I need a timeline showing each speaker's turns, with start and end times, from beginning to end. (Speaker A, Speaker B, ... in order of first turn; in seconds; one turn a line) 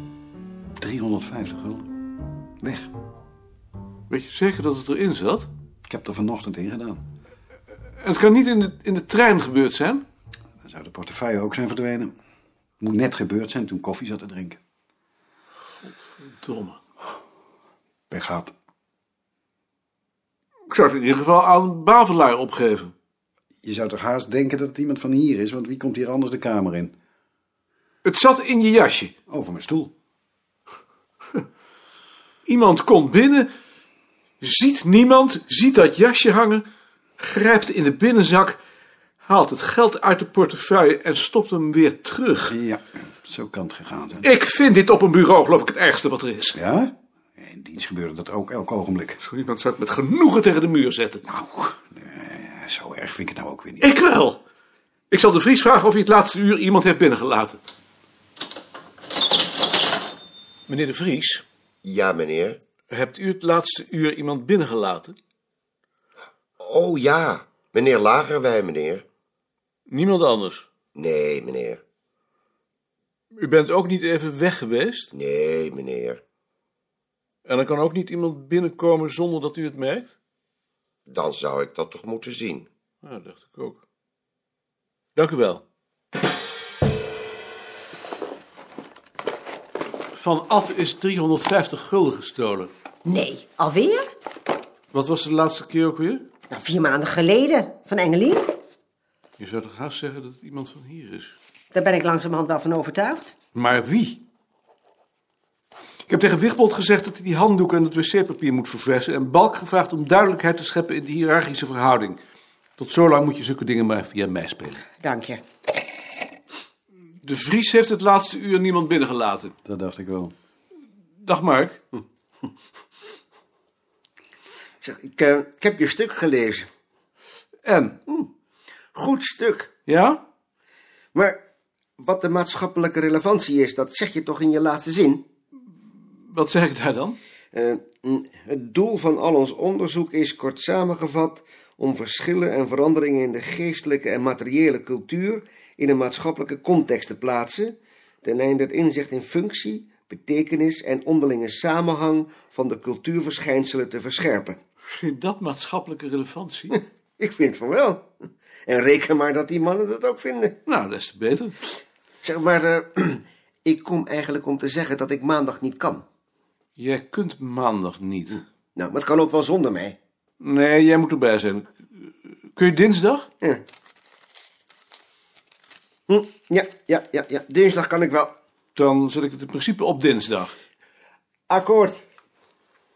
Speaker A: 0.8-1.9
Speaker B: 4.1-5.5
Speaker A: 5.9-7.0
Speaker B: 8.0-10.0
Speaker A: 10.6-12.1
Speaker A: 12.8-14.6
Speaker B: 15.8-16.8
Speaker A: 18.1-18.5
Speaker B: 20.7-22.9
Speaker A: 23.6-26.9
Speaker B: 28.0-29.1
Speaker A: 29.3-29.9
Speaker B: 32.5-33.5
Speaker B: 34.4-36.6
Speaker B: 37.2-38.6
Speaker B: 39.2-42.5
Speaker A: 42.5-44.2
Speaker B: 44.2-46.6
Speaker A: 46.5-49.2
Speaker B: 49.2-51.2
Speaker A: 51.2-53.9
Speaker B: 53.8-54.4
Speaker B: 55.1-57.6
Speaker B: 60.7-61.4
Speaker C: 61.8-62.6
Speaker B: 62.9-65.2
Speaker C: 66.6-69.0
Speaker B: 69.9-70.7
Speaker C: 70.9-71.8
Speaker B: 73.4-75.1
Speaker C: 75.1-76.2
Speaker B: 77.5-80.1
Speaker C: 81.1-82.7
Speaker B: 83.0-83.8
Speaker B: 85.2-85.6
Speaker B: 90.1-92.7
Speaker D: 93.0-94.1
Speaker B: 94.9-96.2
Speaker D: 96.5-98.4
Speaker B: 99.4-101.3
Speaker D: 101.7-103.3
Speaker B: 103.5-104.2
Speaker B: 106.1-112.2
Speaker B: 112.8-114.8
Speaker D: 115.0-115.4
Speaker B: 117.2-119.5
Speaker A: 119.7-120.3
Speaker B: 121.2-121.8
Speaker E: 124.8-126.7
Speaker B: 127.6-128.0
Speaker E: 128.9-129.7
Speaker B: 129.9-130.2
Speaker E: 132.0-135.2
Speaker B: 136.3-137.2
Speaker E: 137.5-154.6
Speaker B: 154.9-156.7
Speaker E: 157.2-158.0
Speaker E: 158.7-160.6
Speaker B: 160.7-161.5
Speaker E: 162.2-166.0
Speaker B: 166.8-168.4
Speaker E: 168.8-170.0
Speaker B: 170.4-171.8
Speaker B: 172.5-173.3
Speaker E: 176.1-178.3
Speaker B: 178.8-180.6
Speaker E: 181.5-182.0